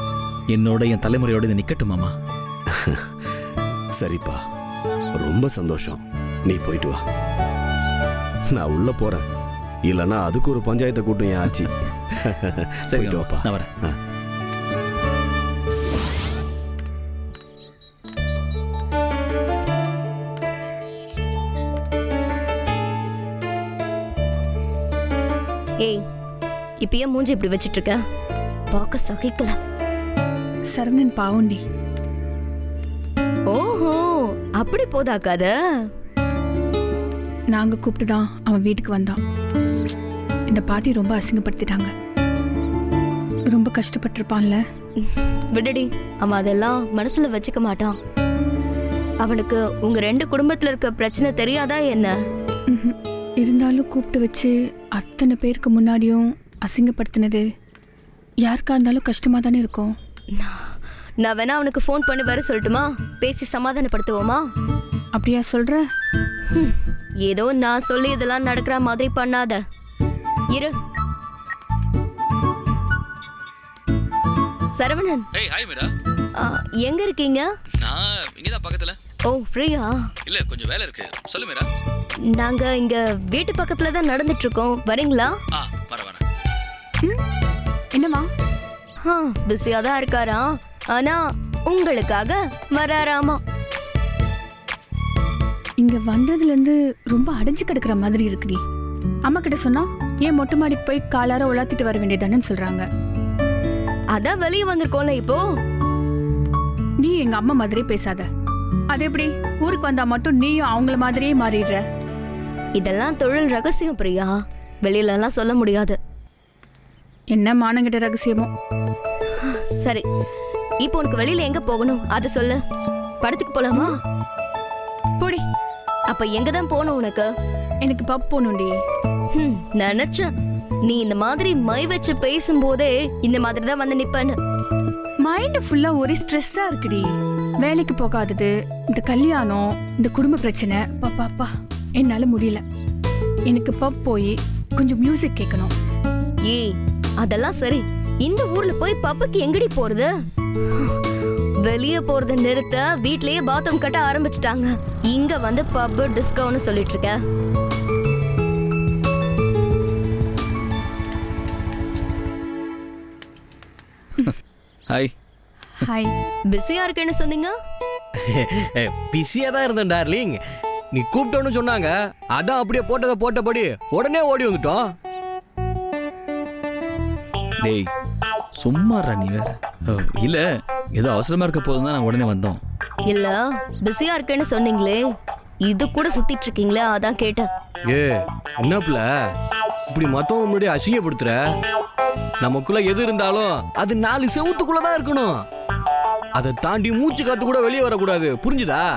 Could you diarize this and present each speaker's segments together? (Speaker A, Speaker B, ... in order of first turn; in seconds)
Speaker A: 0.5-2.1, 12.9-13.7, 75.3-75.9, 77.8-79.0, 80.3-81.7, 85.5-86.2, 177.6-177.9, 178.6-180.4, 181.0-182.6
Speaker B: 2.7-3.1, 4.0-4.4, 5.2-7.0, 8.5-9.2, 9.8-14.0
Speaker C: 26.8-28.0, 28.7-29.6, 33.5-35.5, 45.0-48.0, 49.2-52.2, 60.4-64.4, 66.5-69.6, 74.7-75.3, 76.4-77.5, 79.2-80.1, 82.3-85.3, 89.0-93.4, 104.1-105.5, 112.8-116.0, 119.4-120.0, 120.8-122.6, 123.2-124.0, 126.1-127.3, 129.3-130.3, 130.8-134.4, 146.5-150.1, 150.7-151.1, 151.6-157.2, 166.5-167.5, 183.1-185.0, 185.7-187.5
Speaker D: 30.7-31.6, 37.5-39.2, 40.5-41.9, 43.5-44.6, 52.7-57.4, 58.4-59.9, 65.2-65.8, 87.9-88.3, 95.8-98.6, 99.3-102.8, 107.0-108.3, 108.9-111.8, 117.3-118.5, 127.8-128.8, 135.2-137.1, 137.6-142.6, 143.5-145.7, 165.8-166.1
Speaker E: 168.2-170.4, 170.9-174.9, 187.9-189.1, 189.9-191.4, 192.4-195.4, 196.4-198.9